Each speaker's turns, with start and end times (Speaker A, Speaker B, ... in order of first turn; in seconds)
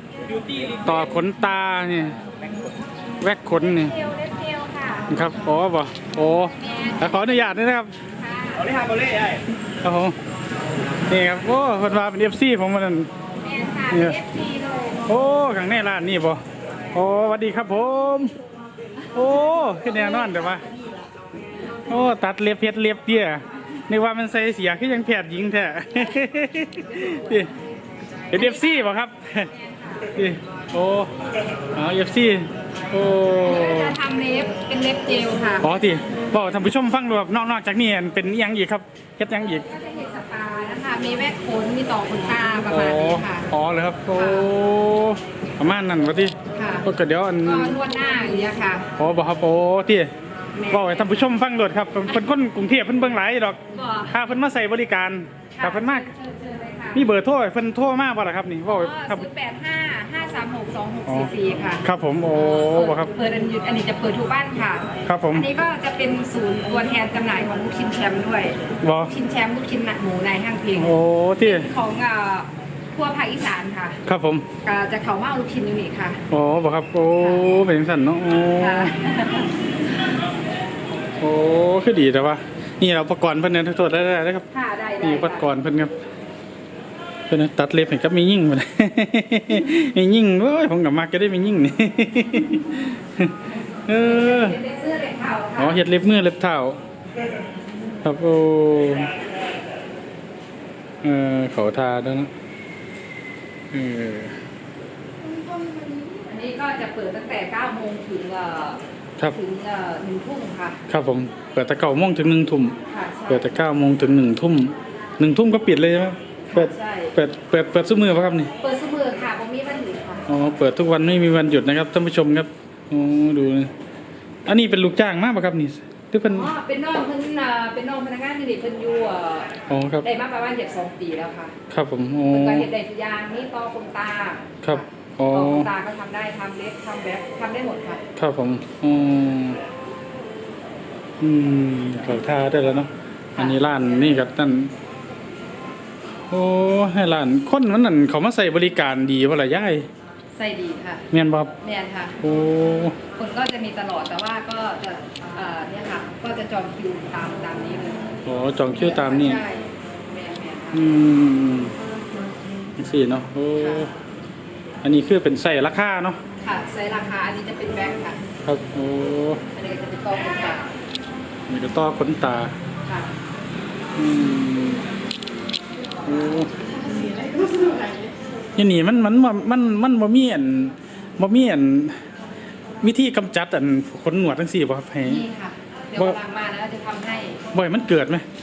Speaker A: 0.3-1.1, 2.2-2.7, 8.6-9.4
Speaker B: 0.8-2.2, 3.2-3.9, 5.1-7.9, 9.8-10.2, 11.1-13.1, 13.9-14.2, 15.1-16.4, 16.9-18.3, 19.1-20.6, 21.9-27.5, 28.3-29.5, 30.1-31.1, 31.7-34.0, 35.6-39.7, 42.7-47.8, 49.0-50.1, 50.7-56.1, 56.9-59.3, 61.8-63.1, 65.1-65.5, 68.8-69.1, 70.8-71.7, 74.1-74.5, 76.3-78.9, 81.2-84.5, 85.0-85.9, 87.3-94.6, 95.6-96.8, 98.0-99.1, 101.0-102.3, 103.7-104.4, 110.9-112.8, 113.3-118.5, 120.3-123.7, 124.5-126.5, 129.7-130.0, 131.7-132.7, 134.6-135.7, 138.2-139.6, 141.2-144.7, 146.2-149.9, 151.1-151.5, 152.2-153.0, 158.2-159.4, 160.7-161.7, 162.8-163.9, 164.8-166.2, 168.5-169.4, 171.5-172.5, 174.0-174.9, 176.0-176.5, 178.6-182.0, 182.8-185.2, 187.5-188.2
Speaker C: 3.6-5.1, 6.6-7.3, 8.2-8.7, 13.4-15.1, 20.0-20.3, 28.3-28.9, 29.5-30.1, 33.4-35.8, 39.6-43.5, 44.1-44.5, 46.5-46.9, 47.4-48.9, 50.5-51.2, 53.7-54.2, 55.5-57.1, 58.7-74.0, 74.6-76.2, 77.2-77.6, 78.6-79.5, 84.5-85.5, 94.0-95.8, 105.2-108.8, 109.3-110.8, 112.9-113.5, 116.5-117.1, 118.6-120.3, 126.2-131.6, 132.3-138.0, 143.4-143.9, 150.3-151.1, 151.6-152.2, 153.1-158.2, 158.7-160.9, 163.6-163.9, 166.4-168.2, 169.5-170.8, 172.9-173.1, 176.6-178.1, 185.0-187.4